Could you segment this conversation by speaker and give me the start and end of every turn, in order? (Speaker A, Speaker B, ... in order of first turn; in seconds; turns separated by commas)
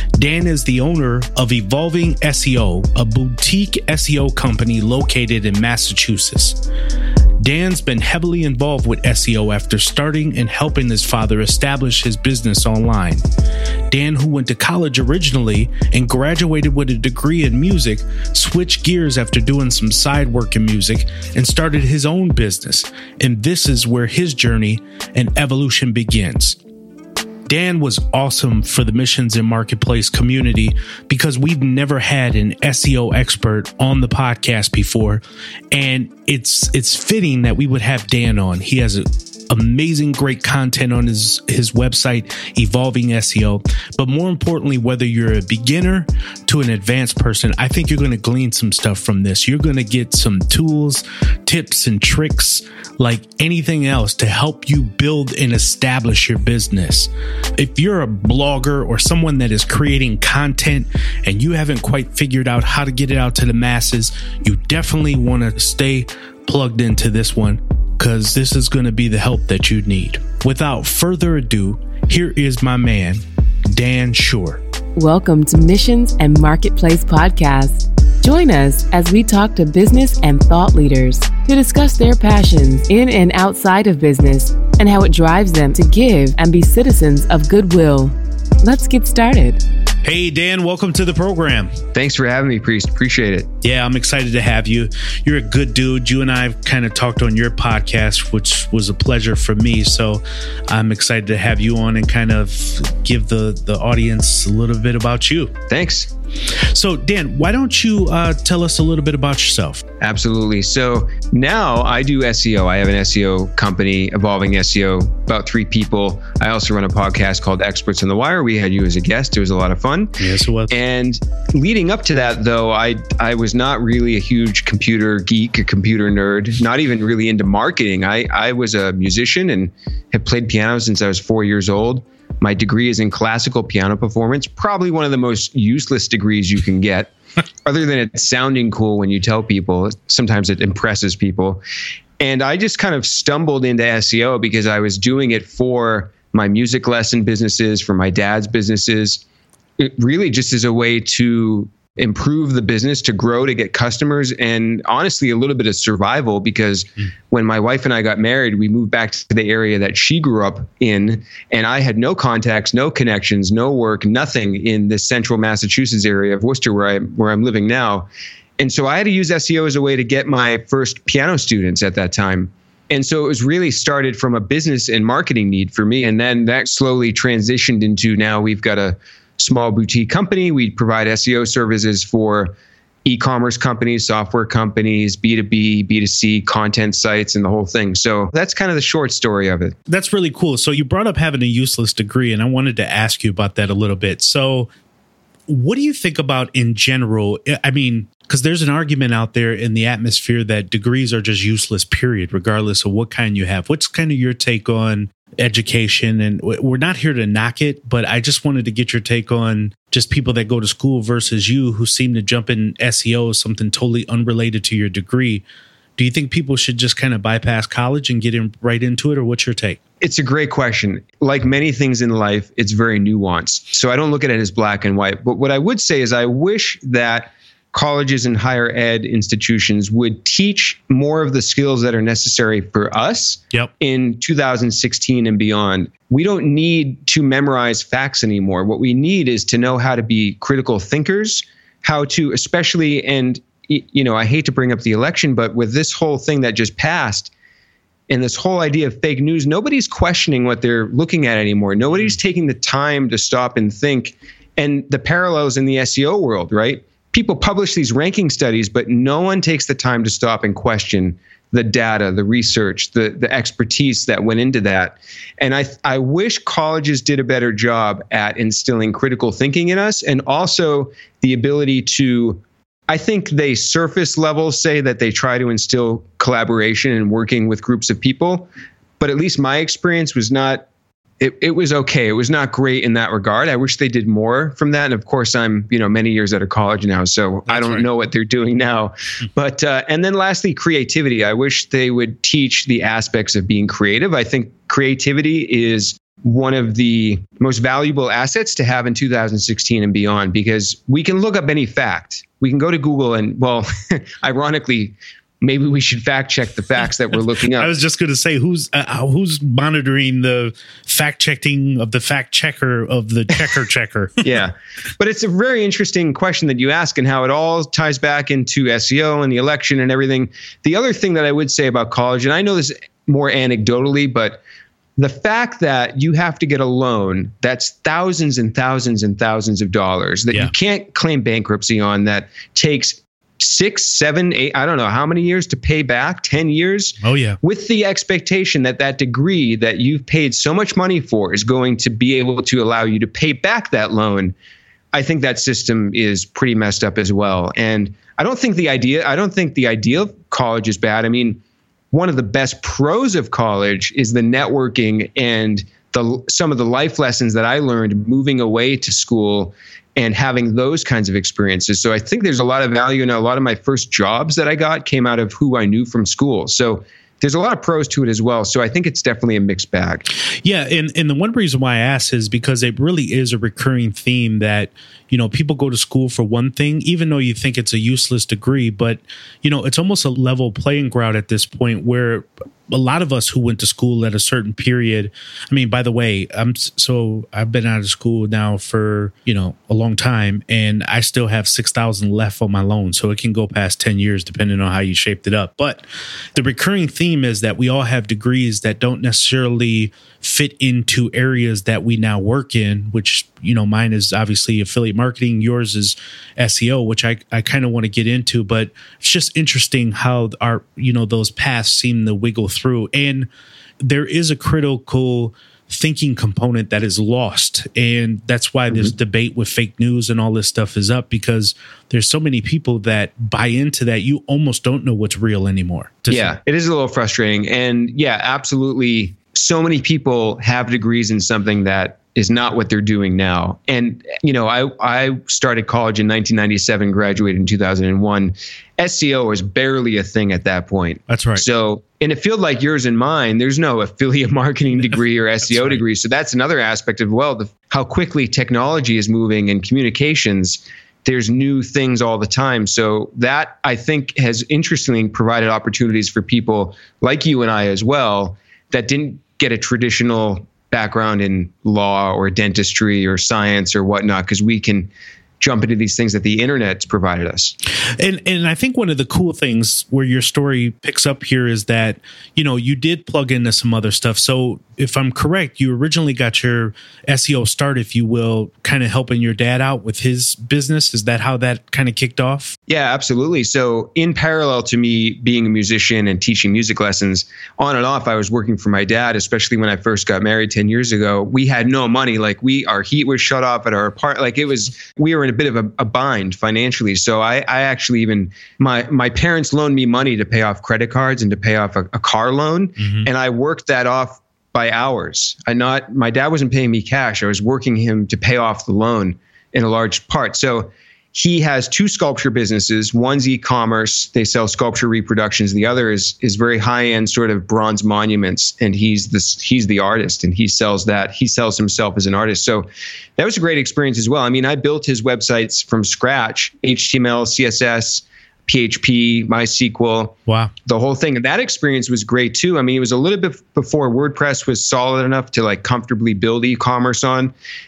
Speaker A: 0.2-6.6, Speaker A: 7.4-13.2, Speaker A: 13.9-26.6, Speaker A: 27.4-74.6, Speaker B: 75.0-89.6, Speaker A: 90.0-91.8, Speaker C: 91.9-93.5, Speaker A: 93.6-105.6, Speaker C: 105.7-106.1, Speaker A: 106.6-109.8, Speaker C: 110.0-137.1, Speaker A: 120.2-120.7, Speaker C: 137.6-141.6, Speaker C: 142.2-149.2, Speaker C: 149.8-182.5, Speaker C: 183.0-189.8, Speaker A: 189.9-194.7, Speaker A: 195.5-215.4, Speaker A: 216.0-219.8, Speaker C: 220.0-247.3, Speaker C: 248.1-278.5, Speaker C: 279.0-280.6, Speaker C: 281.2-307.7, Speaker A: 287.5-287.8, Speaker A: 307.5-314.3, Speaker C: 314.2-324.4, Speaker C: 325.0-344.3, Speaker A: 337.0-337.4, Speaker C: 344.9-351.4, Speaker C: 351.9-370.1, Speaker A: 370.4-413.3, Speaker A: 413.8-426.3, Speaker C: 426.1-464.9, Speaker A: 441.1-441.4, Speaker C: 465.4-467.5, Speaker A: 468.0-482.6, Speaker C: 482.7-537.3, Speaker A: 502.8-503.1, Speaker A: 530.3-530.5